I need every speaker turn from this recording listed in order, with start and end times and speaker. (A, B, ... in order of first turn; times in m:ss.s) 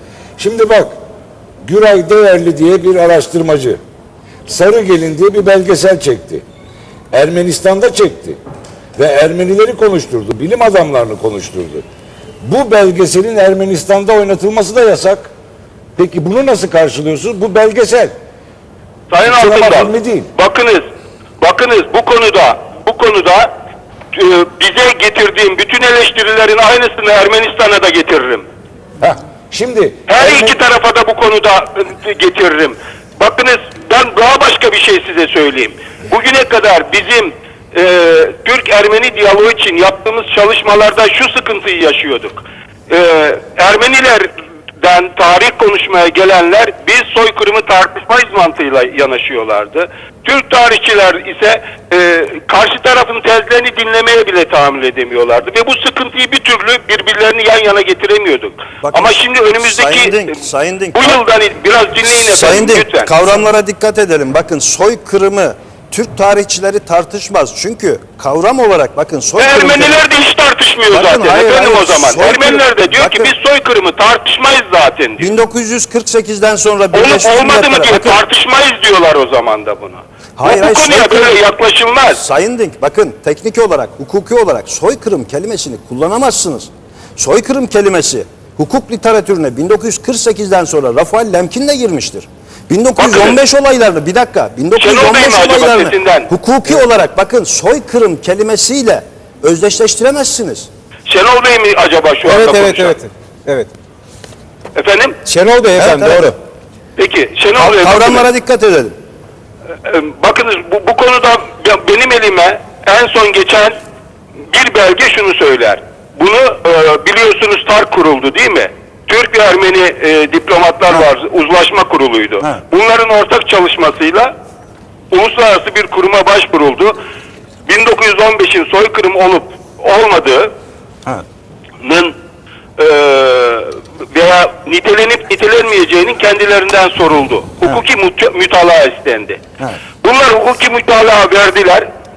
0:00.4-0:01.0 A
0:01.6-0:03.8 A
0:04.5-0:06.4 A
0:07.1-0:08.4 A
0:09.0-0:11.8 A
0:12.4-0:15.3 A
0:16.0-0:18.1 A
0:19.1-0:20.8 B
0:19.2-0:20.3 A
0:21.4-0:23.5 B
0:24.1-0:28.4 B
0:29.0-0:30.6 A
0:30.1-1:00.4 B
0:58.8-1:01.2 C
1:00.9-1:03.2 B
1:02.0-1:10.0 C
1:09.4-1:15.3 B
1:10.9-1:13.3 C
1:15.2-1:18.2 C
1:16.9-1:22.2 B
1:20.4-1:21.4 C
1:22.1-1:40.7 C
1:33.0-1:33.4 B
1:34.8-1:36.3 B
1:41.1-1:43.0 B
1:42.2-1:43.7 D
1:44.8-1:45.2 B
1:45.3-1:46.3 D
1:45.8-1:46.4 C
1:47.0-1:48.3 B
1:47.6-1:49.0 C
1:49.8-1:53.8 B
1:54.5-2:04.3 B
2:05.1-2:06.9 B
2:07.7-2:10.5 B
2:11.8-2:12.2 B
2:12.8-2:19.4 B
2:20.0-2:21.9 B